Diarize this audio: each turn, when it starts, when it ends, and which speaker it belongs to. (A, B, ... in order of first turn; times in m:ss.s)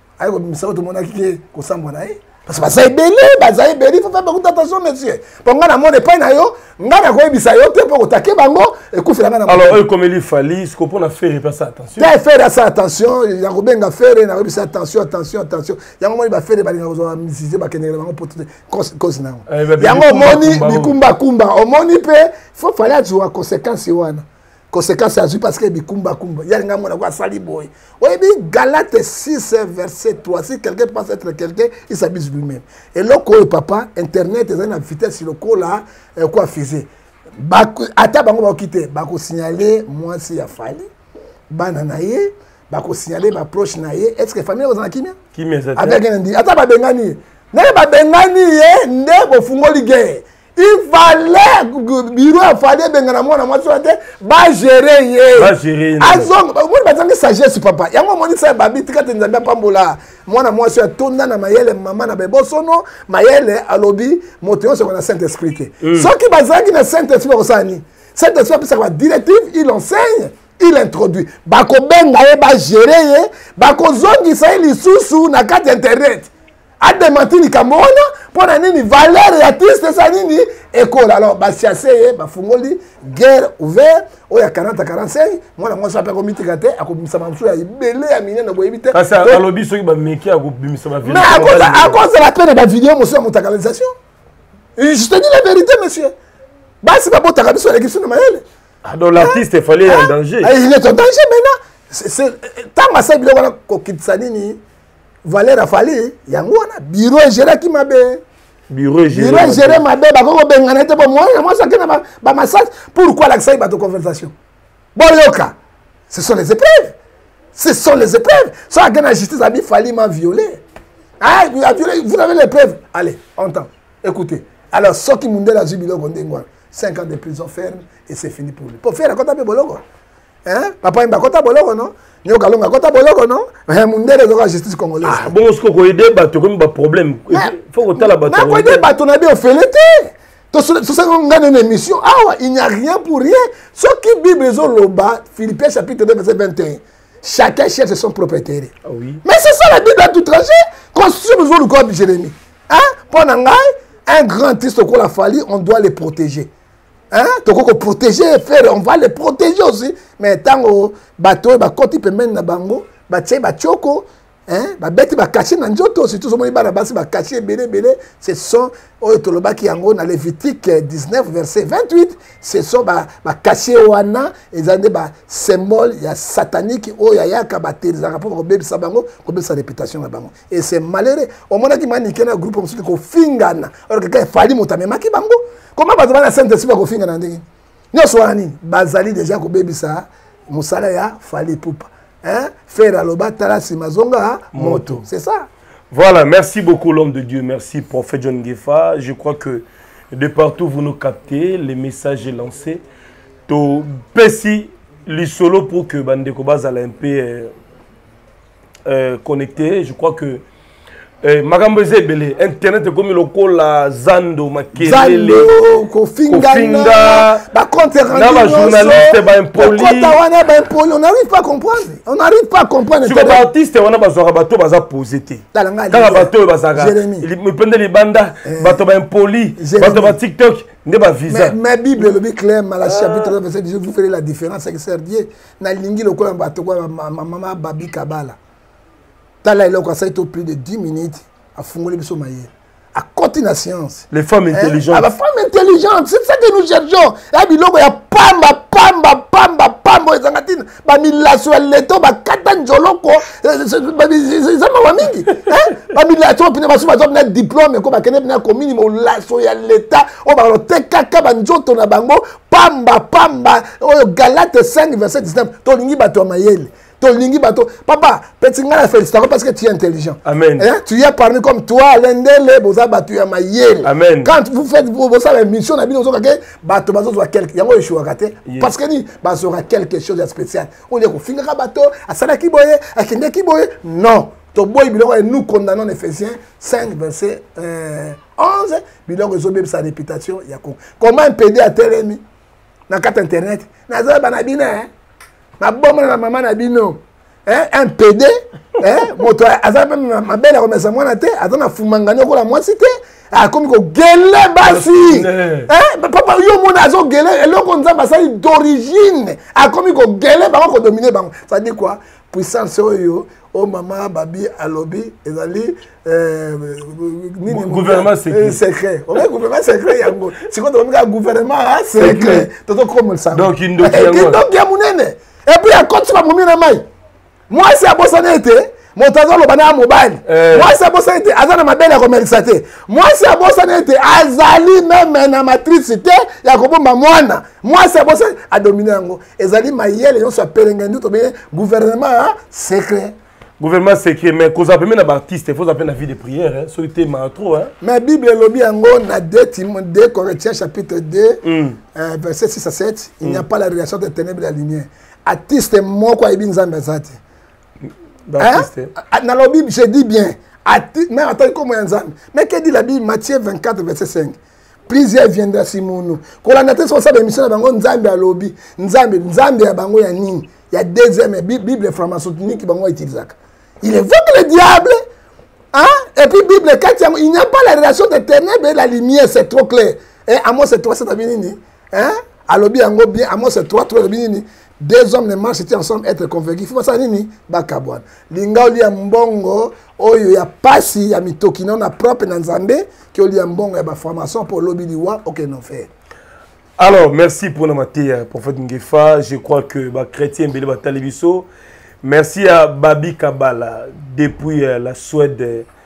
0:00.2-0:09.8 A
0:09.4-0:12.1 B
0:12.0-0:36.9 A
0:19.5-0:21.0 B
0:37.4-0:40.9 A
0:41.5-0:45.2 A
0:45.3-0:46.0 B
0:45.8-1:29.4 A
0:55.3-0:56.3 B
1:05.8-1:06.1 B
1:28.9-1:32.0 B
1:31.0-1:33.9 A
1:34.8-1:36.1 A
1:36.8-1:38.4 A
1:38.8-1:40.5 B
1:39.2-1:44.6 A
1:45.2-1:48.2 A
1:48.7-1:49.8 B
1:49.1-1:54.3 A
1:55.0-1:55.6 A
1:56.1-1:56.9 A
1:57.5-2:00.6 A
2:01.2-2:09.8 A
2:10.4-2:15.3 A
2:15.0-2:18.8 B
2:17.3-2:28.7 A
2:28.8-2:29.2 B
2:29.2-2:36.5 A
2:37.1-3:15.5 A
3:14.5-3:15.0 B
3:15.9-3:22.8 B
3:23.5-3:27.5 B
3:28.8-3:30.4 B
3:31.2-3:35.5 B
3:34.8-3:43.4 A
3:36.3-3:37.4 B
3:38.1-3:40.2 B
3:43.0-3:52.1 B
3:45.5-3:47.3 A
3:48.4-3:48.8 A
3:49.6-3:50.2 A
3:51.3-3:58.4 A
3:52.8-3:53.3 B
3:59.4-4:52.2 A
4:04.1-4:05.1 B
4:30.2-4:30.7 B
4:33.8-4:34.3 B
4:38.4-4:38.7 B
4:52.9-4:54.9 A
4:55.6-5:26.8 A
5:04.6-5:05.7 B
5:17.5-5:18.6 B
5:22.0-5:22.5 B
5:23.3-5:24.4 B
5:27.5-5:43.2 A
5:30.2-5:30.7 B
5:43.6-5:47.7 B
5:47.8-5:51.4 A
5:51.4-5:51.8 B
5:51.9-5:57.2 A
5:57.8-5:58.9 B
5:58.4-6:15.0 A
6:15.7-6:35.9 A
6:36.8-6:41.5 B
6:42.0-6:45.7 B